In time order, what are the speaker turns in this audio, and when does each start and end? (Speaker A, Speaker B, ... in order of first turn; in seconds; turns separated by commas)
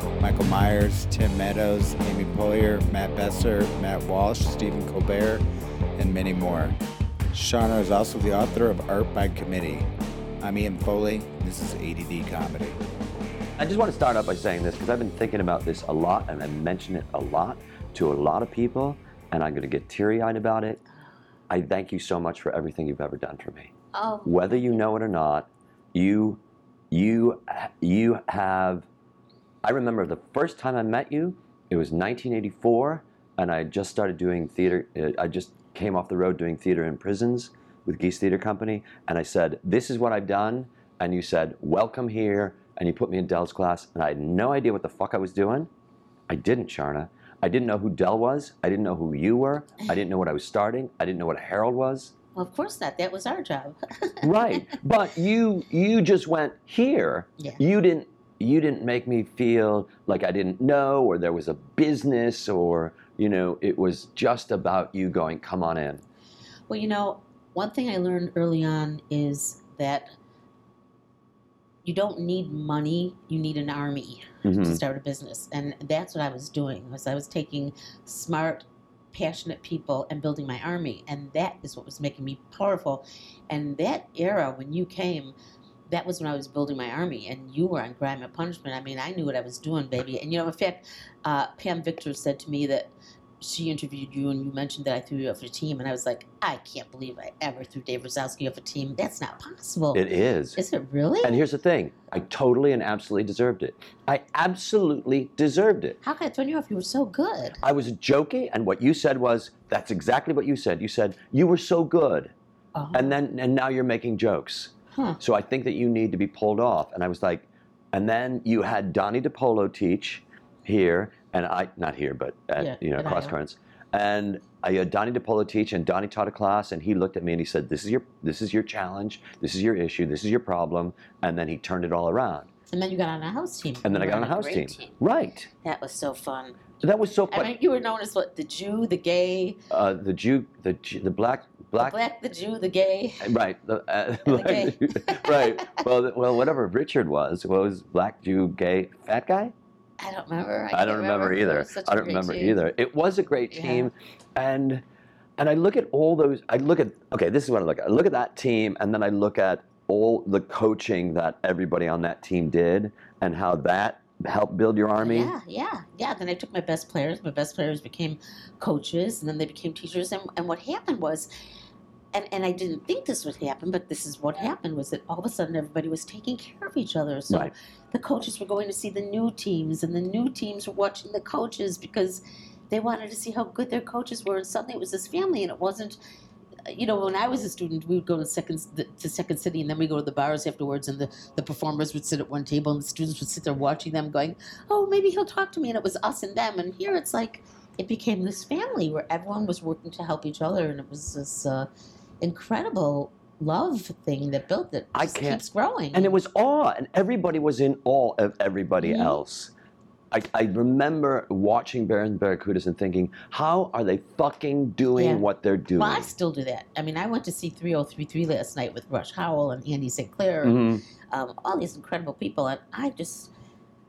Speaker A: 0.2-5.4, Speaker A: 6.0-6.7, Speaker A: 7.3-9.9, Speaker A: 10.4-12.8, Speaker B: 13.6-20.8, Speaker B: 21.5-23.7, Speaker C: 23.9-24.8, Speaker B: 24.2-28.9, Speaker B: 29.6-45.7, Speaker B: 46.3-52.1, Speaker C: 52.4-54.7, Speaker B: 54.2-66.0, Speaker C: 66.7-70.1, Speaker C: 71.8-85.3, Speaker B: 74.4-74.8, Speaker C: 85.9-100.0, Speaker B: 99.9-100.6, Speaker C: 100.6-101.4, Speaker B: 101.2-106.0, Speaker C: 106.0-107.6, Speaker B: 107.6-112.3, Speaker C: 112.7-113.1, Speaker B: 112.9-132.5, Speaker C: 114.9-115.2, Speaker C: 122.6-123.3, Speaker C: 132.7-134.9, Speaker B: 133.8-135.5, Speaker C: 135.6-136.7, Speaker B: 136.8-137.5, Speaker C: 137.3-139.6, Speaker B: 139.7-142.0, Speaker C: 141.8-143.3, Speaker B: 143.2-149.5, Speaker C: 144.3-145.8, Speaker C: 150.0-152.6, Speaker B: 150.7-154.8, Speaker C: 153.5-153.9, Speaker B: 155.4-165.3, Speaker C: 165.0-171.3, Speaker C: 172.1-186.0, Speaker C: 186.7-201.7, Speaker C: 202.2-206.1, Speaker B: 204.9-205.4, Speaker B: 205.9-209.5, Speaker C: 208.8-209.2, Speaker B: 210.1-216.1, Speaker C: 214.9-215.2, Speaker C: 215.8-223.3, Speaker B: 220.4-220.8